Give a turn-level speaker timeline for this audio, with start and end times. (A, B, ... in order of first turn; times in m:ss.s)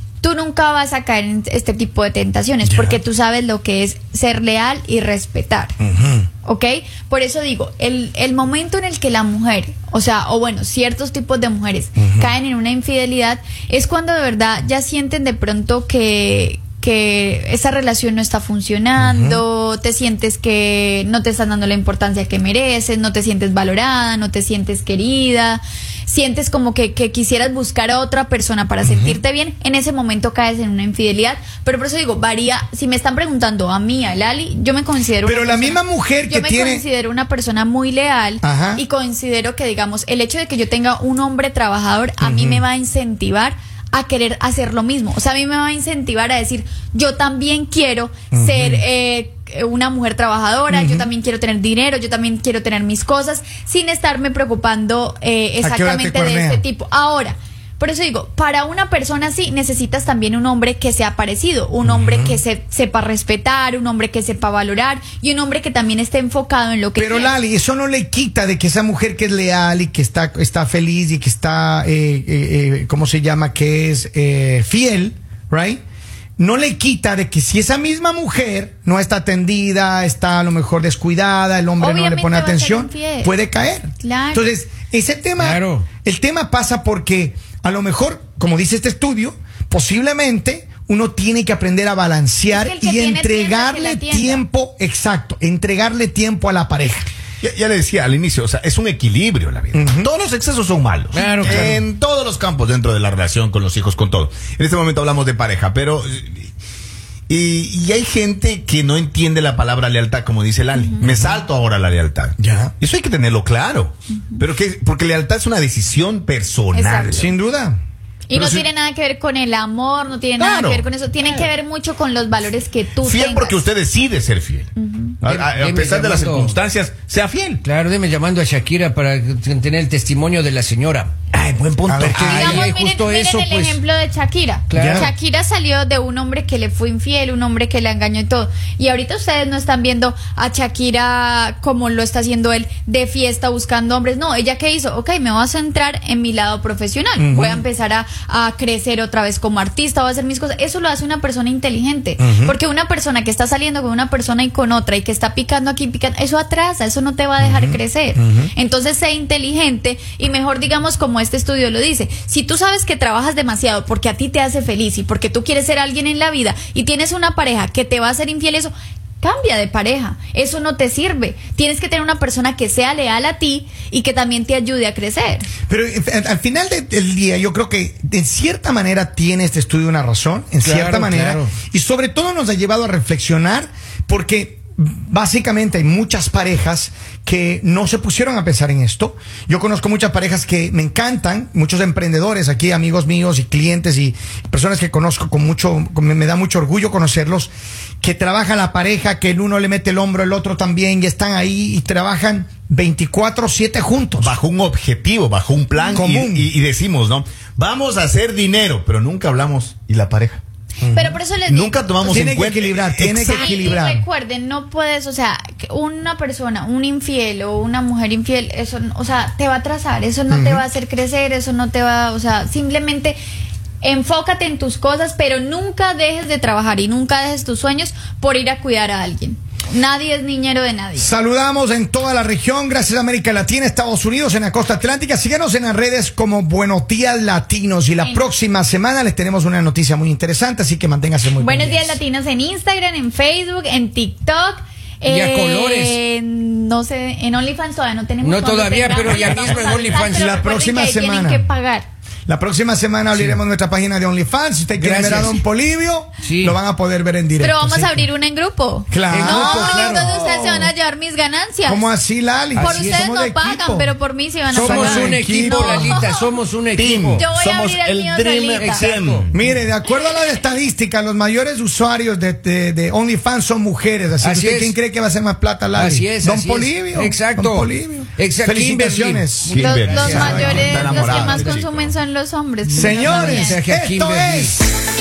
0:00.2-0:05.8 A
0:02.7-0:03.0 B
0:05.8-0:06.3 B
0:06.4-1:07.3 A
0:12.0-0:12.3 B
0:19.0-0:19.4 B
0:28.8-0:29.2 B
0:35.2-0:36.8 B
0:38.4-0:38.8 B
0:42.2-0:42.6 B
0:48.3-0:48.8 B
0:50.7-0:51.1 B
0:55.6-0:56.6 B
1:01.8-1:02.4 B
1:07.0-1:15.8 B
1:16.4-1:37.1 B
1:21.8-1:23.3 A
1:24.0-1:24.5 A
1:25.4-1:25.9 C
1:32.5-1:34.4 A
1:37.4-1:46.4 D
1:39.7-1:40.1 B
1:41.2-1:41.7 C
1:41.2-1:41.8 B
1:47.3-1:57.3 D
1:51.0-1:51.4 B
1:52.4-1:52.7 B
1:56.7-1:57.2 A
1:57.1-1:57.8 B
1:58.3-2:03.7 A
1:58.3-1:58.7 D
2:00.4-2:00.8 D
2:03.0-2:04.7 D
2:04.8-2:05.2 A
2:05.2-2:07.6 D
2:05.3-2:06.6 C
2:07.6-2:11.1 C
2:11.3-2:12.7 D
2:11.9-2:12.6 B
2:12.1-2:13.8 C
2:12.2-2:55.5 A
2:14.7-2:15.1 C
2:14.7-2:15.1 B
2:27.2-2:27.6 B
2:32.2-2:32.6 B
2:37.4-2:38.5 B
2:55.7-3:24.4 B
3:00.6-3:01.5 C
3:24.2-3:30.4 D
3:25.9-3:26.5 B
3:30.8-3:31.2 B
3:30.9-3:31.8 A
3:31.4-3:33.8 D
3:32.0-3:34.0 B
3:33.2-3:34.0 C
3:33.4-3:43.2 A
3:40.3-3:40.6 B
3:43.8-3:51.1 A
3:51.0-4:02.0 B
4:01.4-4:11.9 A
4:05.0-4:06.0 C
4:08.2-4:10.9 C
4:09.4-4:09.8 D
4:09.9-4:11.5 B
4:12.3-4:18.1 B
4:14.8-4:15.4 C
4:16.2-4:16.6 C
4:17.4-4:21.9 A
4:18.9-4:20.7 B
4:19.0-4:20.6 C
4:21.7-4:23.9 B
4:22.6-4:23.3 C
4:22.6-4:26.4 A
4:24.5-4:26.0 B
4:24.6-4:27.8 C
4:26.8-4:29.4 D
4:27.0-4:29.0 A
4:28.5-4:29.3 C
4:29.3-4:40.8 B
4:34.2-4:34.7 C
4:35.7-4:41.9 C
4:39.4-4:41.9 D
4:39.5-4:43.8 A
4:42.6-4:44.6 C
4:42.8-4:44.7 B